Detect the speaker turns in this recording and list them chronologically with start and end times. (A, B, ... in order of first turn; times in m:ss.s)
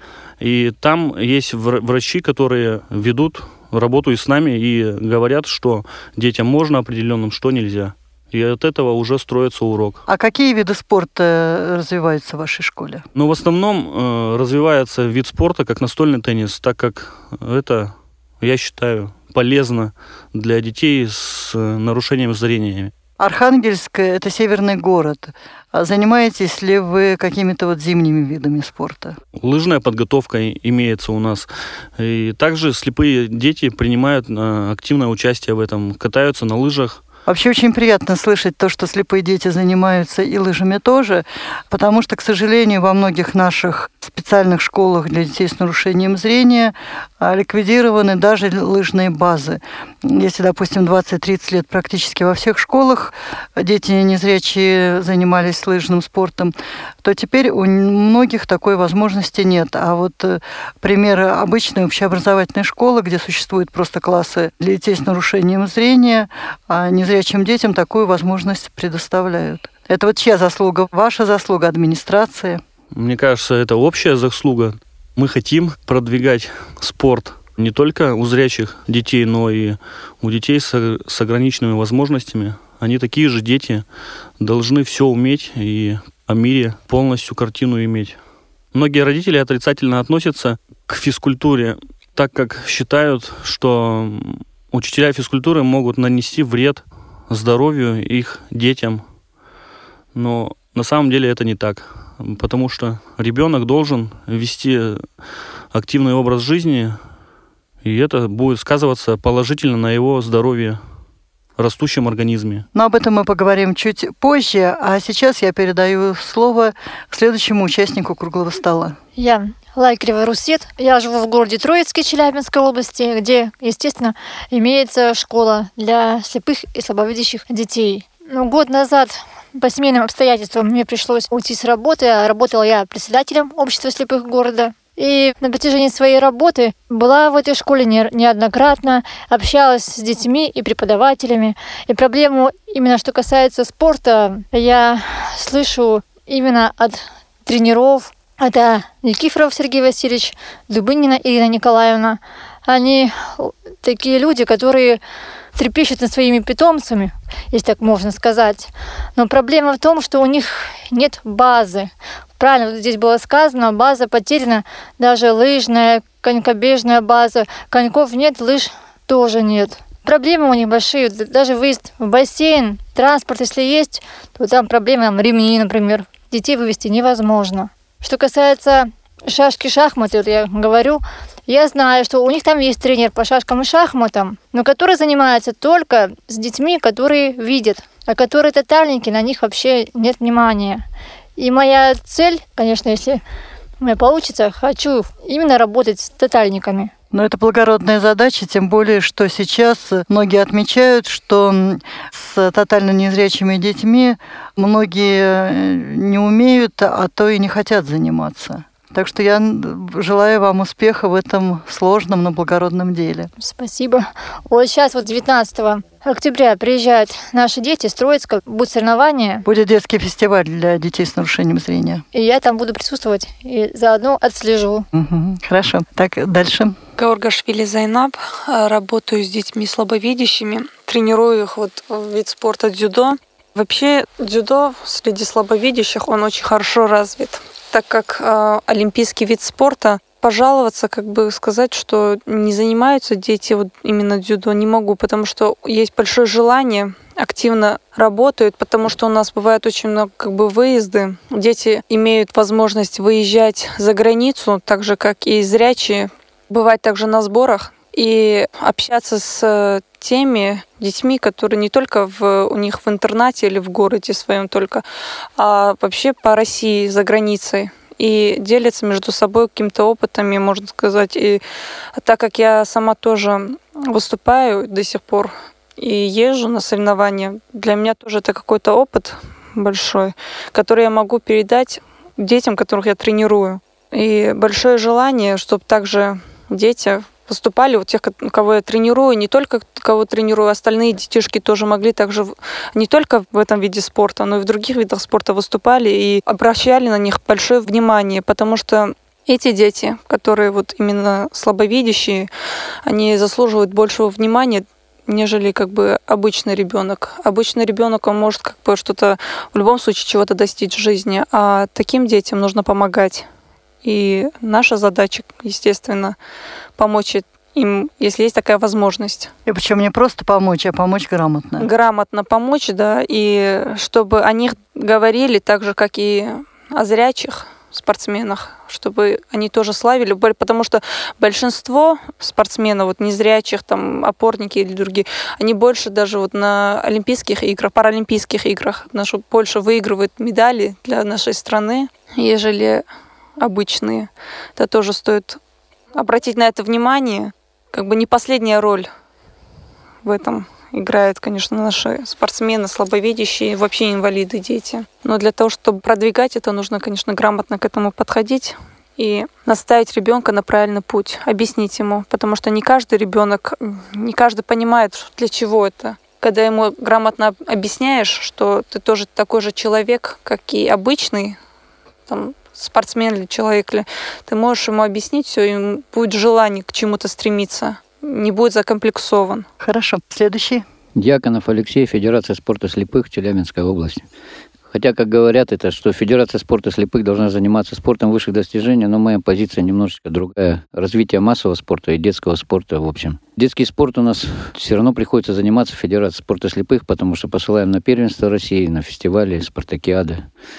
0:00.4-0:10.0 A
0:10.1-0:13.0 B
0:13.1-0:22.9 A
0:23.2-0:29.2 B
0:29.4-0:37.0 A
0:37.3-1:12.6 B
1:12.9-1:23.8 A
1:24.4-1:28.2 A
1:28.7-1:39.0 A
1:40.1-1:45.0 A
1:45.7-1:47.0 A
1:47.8-1:50.8 A
1:51.6-1:52.6 A
1:52.7-1:59.0 B
1:59.2-2:35.0 C
2:35.6-3:10.8 C
3:11.4-3:13.2 C
3:13.8-3:16.9 C
3:17.1-3:33.3 B
3:33.4-3:39.4 C
3:39.4-3:42.0 B
3:42.1-3:44.9 C
3:44.9-3:46.8 B
3:47.0-4:24.8 D
4:25.4-4:31.4 D
4:31.9-5:02.3 D
5:02.8-5:13.3 D
5:13.8-5:16.2 D
5:16.8-5:19.3 D
5:19.4-5:21.7 B
5:21.6-5:42.8 D
5:43.4-5:45.4 D
5:45.9-5:48.9 D
5:50.0-6:11.4 D
6:12.1-6:19.4 D
6:19.6-6:20.6 B
6:20.9-6:24.0 E
6:24.7-6:40.3 E